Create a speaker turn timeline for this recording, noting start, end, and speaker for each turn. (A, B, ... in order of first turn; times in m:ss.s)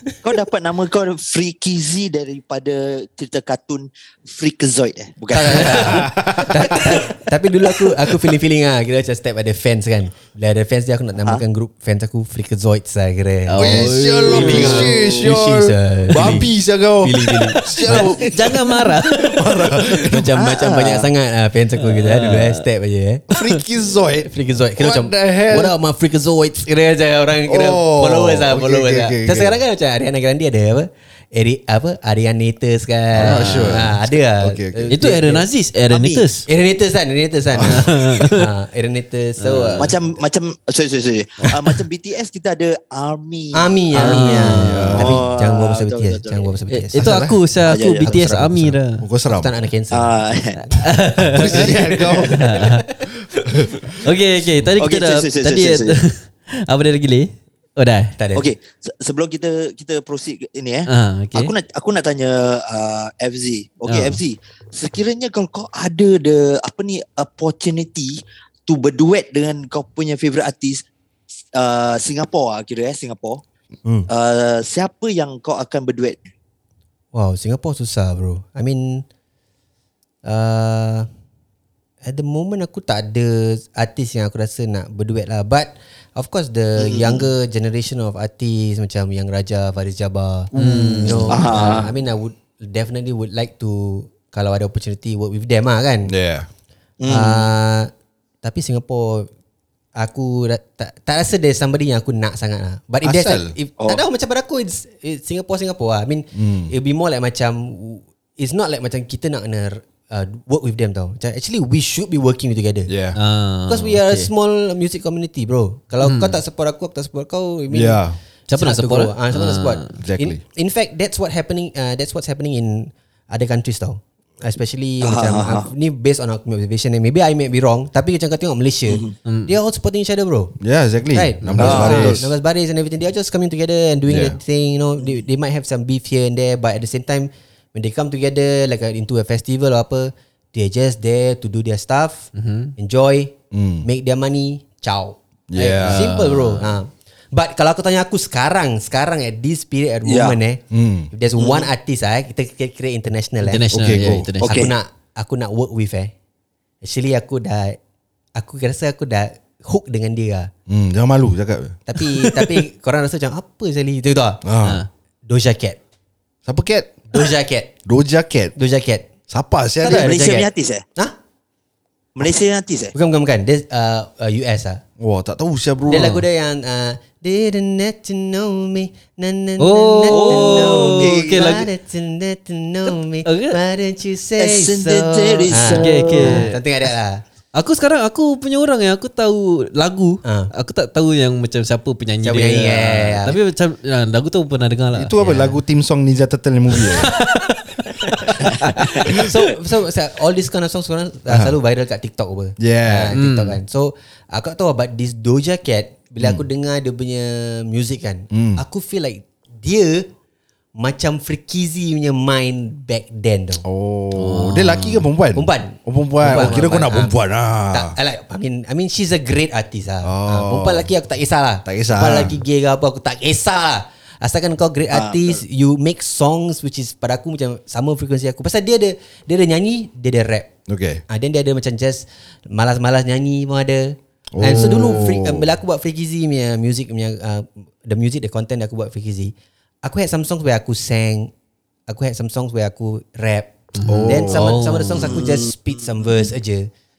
0:00.2-0:06.0 A
0:05.3-0:16.5 B
0:05.7-0:06.9 C
0:13.5-0:15.0 D
0:13.6-0:20.3 C
0:17.0-0:18.3 B
0:17.9-0:19.9 D
0:19.8-0:23.2 B
0:20.4-0:21.1 A
0:21.8-0:22.6 D
0:23.3-0:25.7 C
0:24.2-0:35.5 B
0:27.5-0:29.6 C
0:33.1-0:34.9 C
0:33.2-0:33.9 D
0:34.9-0:36.4 D
0:35.9-0:36.2 A
0:36.5-0:39.9 B
0:37.5-0:37.9 C
0:37.6-0:38.5 D
0:39.4-0:39.9 D
0:39.8-0:46.5 A
0:41.4-0:41.8 D
0:43.5-0:50.2 B
0:43.9-0:45.0 D
0:44.4-0:45.2 C
0:46.7-0:49.0 D
0:47.0-0:47.4 C
0:47.7-0:48.2 A
0:49.0-0:49.5 C
0:49.9-0:50.6 A
0:50.8-0:51.8 D
0:51.2-0:52.6 C
0:51.4-0:52.2 A
0:52.2-0:52.7 B
0:52.3-0:52.9 D
0:53.1-0:54.1 C
0:54.0-0:58.1 D
0:54.8-0:56.0 A
0:58.2-0:58.5 B
0:58.3-1:10.8 A
1:00.9-1:01.5 D
1:03.9-1:04.2 D
1:11.5-1:13.4 A
1:14.1-1:16.2 A
1:17.1-1:19.0 B
1:20.2-1:21.1 B
1:22.0-1:36.1 B
1:26.8-1:27.3 A
1:30.5-1:31.3 C
1:30.5-1:31.8 D
1:31.3-1:31.9 A
1:36.1-1:36.5 C
1:37.0-1:37.5 A
1:37.1-1:37.9 B
1:38.4-1:39.3 B
1:40.0-1:52.9 B
1:43.0-1:43.6 C
1:46.3-1:46.7 C
1:52.9-1:53.2 C
1:53.1-1:54.3 D
1:53.7-2:10.6 B
1:56.0-1:56.4 D
1:57.7-1:58.2 C
1:58.5-1:59.9 D
1:59.9-2:00.4 C
2:05.0-2:05.7 A
2:08.9-2:09.2 A
2:09.2-2:09.5 D
2:10.6-2:12.2 C
2:11.1-2:33.7 B
2:11.4-2:11.9 D
2:11.6-2:12.2 A
2:14.1-2:14.4 C
2:22.3-2:22.7 D
2:23.5-2:23.9 C
2:25.5-2:26.1 C
2:25.8-2:26.8 D
2:30.0-2:30.4 A
2:30.7-2:31.1 C
2:31.4-2:31.7 A
2:33.4-2:34.6 D
2:33.7-2:34.3 C
2:34.4-2:34.7 A
2:34.5-2:36.1 B
2:36.8-2:37.8 B
2:38.3-2:40.5 B
2:40.7-2:42.5 C
2:41.9-2:44.4 B
2:44.4-2:44.8 C
2:45.3-2:45.8 B
2:46.5-2:47.2 C
2:47.1-2:47.7 B
2:47.8-2:48.5 C
2:48.6-2:49.0 B
2:49.3-2:50.2 C
2:49.8-2:51.2 B
2:49.8-2:50.8 A
2:52.2-2:52.9 A
2:52.9-2:54.8 B
2:55.0-2:56.1 C
2:55.9-3:07.2 B
2:55.9-2:56.2 D
2:59.6-3:01.7 D
3:00.1-3:01.6 A
3:03.2-3:03.6 D
3:04.4-3:06.5 A
3:05.5-3:06.6 D
3:07.5-3:15.2 D
3:10.2-3:10.5 B
3:12.2-3:13.4 B
3:14.9-3:17.2 C
3:15.2-3:15.5 B
3:16.9-3:17.6 D
3:17.9-3:30.1 B
3:18.3-3:19.2 C
3:21.3-3:21.6 C
3:22.6-3:23.2 C
3:23.2-3:23.6 D
3:28.3-3:28.6 C
3:30.8-3:33.6 B
3:33.6-3:37.9 C
3:34.2-3:35.1 D
3:35.3-3:37.2 B
3:37.7-3:50.5 B
3:40.0-3:40.9 C
3:41.7-3:42.4 C
3:44.9-3:45.4 A
3:50.7-3:51.0 C
3:51.1-4:01.3 B
3:54.3-3:55.5 C
4:01.9-4:03.5 B
4:03.7-4:05.2 D
4:03.8-4:04.5 C
4:04.1-4:06.7 B
4:05.0-4:05.5 A